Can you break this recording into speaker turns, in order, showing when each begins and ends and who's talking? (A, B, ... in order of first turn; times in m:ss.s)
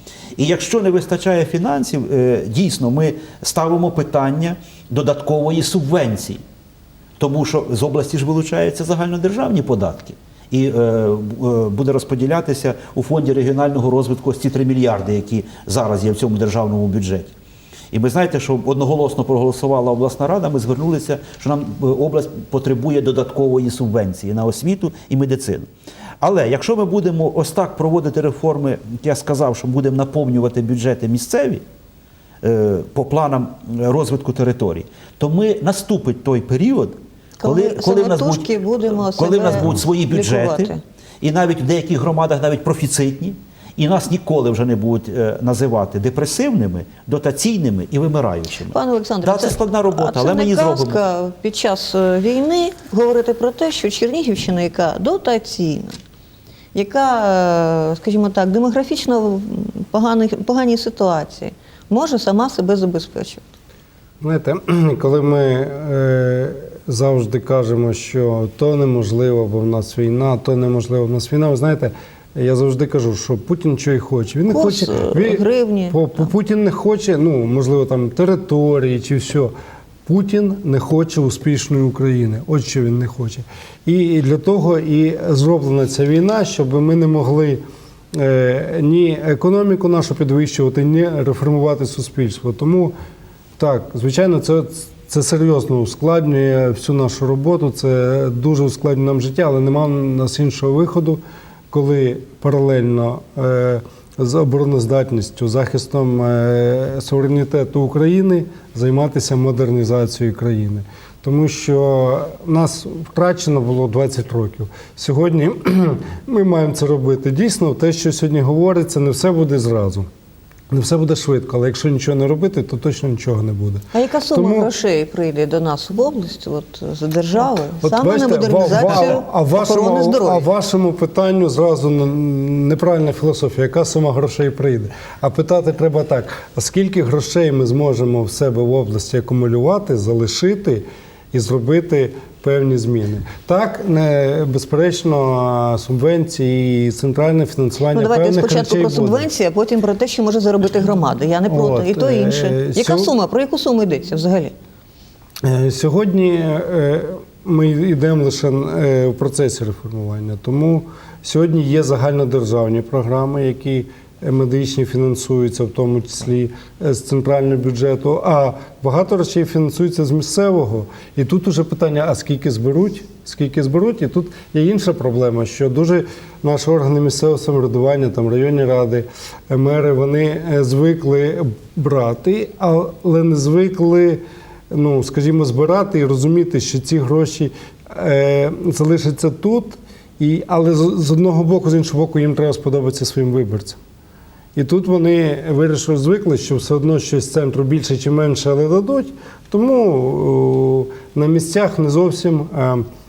0:00.4-0:06.4 A
0:07.2-0:17.3 A
0:17.9-0:25.7 A
0:26.2-0:31.6 A
0:32.4-0:51.0 A
0:37.4-0:40.8 B
0:48.7-0:56.0 B
0:56.7-1:03.5 B
1:04.2-1:19.5 C
1:14.5-1:16.3 B
1:20.0-1:27.6 C
1:28.1-1:32.9 C
1:33.6-2:00.1 C
2:00.7-2:04.7 C
2:03.9-2:10.4 B
2:07.8-2:29.3 C
2:27.9-2:34.5 B
2:31.4-2:33.1 C
2:35.4-3:13.8 C
3:14.5-3:22.8 C